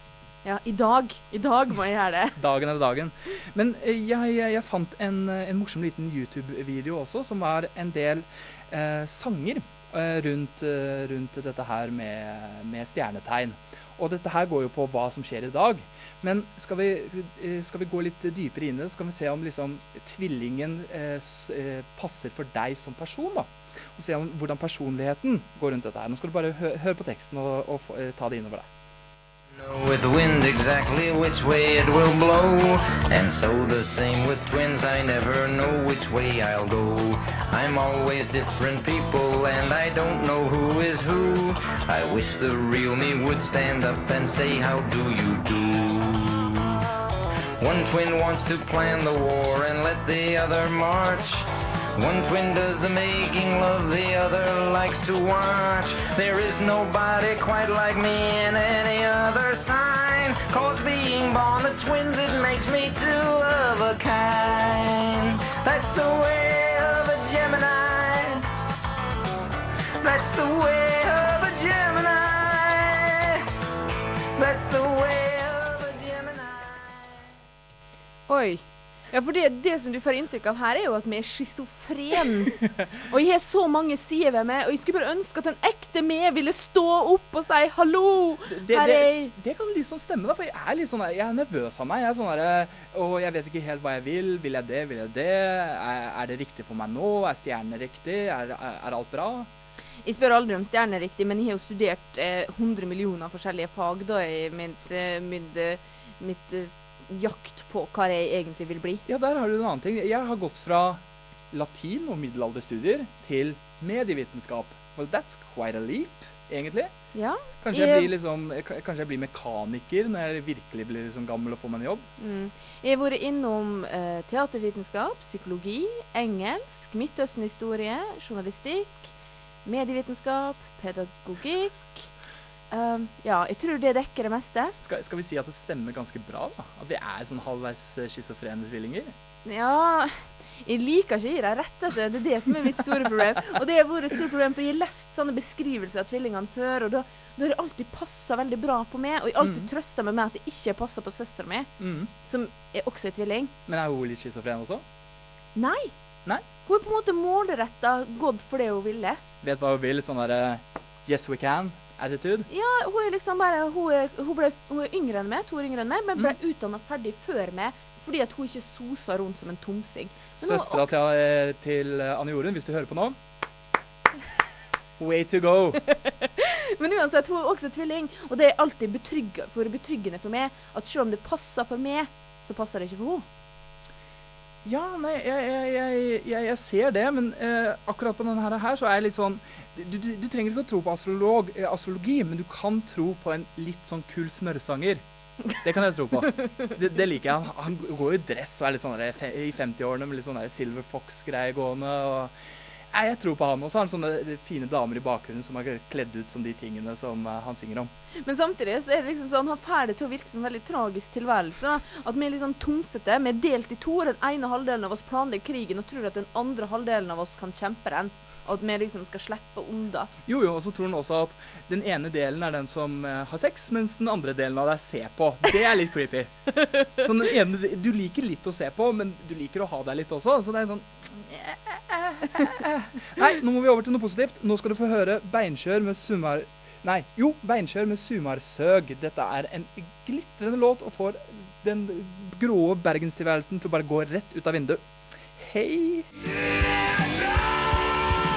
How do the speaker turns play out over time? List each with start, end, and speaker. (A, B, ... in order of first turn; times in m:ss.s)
0:00.4-0:02.4 A
0:02.4-0:28.7 B
0:29.5-0:46.7 C
0:47.6-1:08.4 C
1:10.0-1:13.4 C
1:14.4-1:16.9 C
1:18.3-1:29.3 A
1:28.5-1:39.5 B
1:40.0-1:49.0 A
1:49.0-1:56.9 B
1:57.1-1:58.1 A
1:57.6-2:02.1 B
2:02.2-2:09.1 A
2:09.6-2:12.1 A
2:12.7-2:14.7 A
2:14.8-2:19.1 B
2:19.4-2:31.7 A
2:29.4-2:29.7 B
2:31.8-2:32.1 B
2:32.2-2:33.5 A
2:33.7-2:34.8 B
2:35.5-2:35.9 A
2:36.6-2:39.2 A
2:39.4-2:42.5 B
2:42.5-2:50.9 A
2:50.4-2:53.2 B
2:55.0-2:55.8 B
2:55.8-3:03.2 A
3:04.6-3:22.3 B
3:16.3-3:16.7 A
3:22.9-3:27.9 B
3:28.2-3:40.1 A
3:40.2-4:06.1 B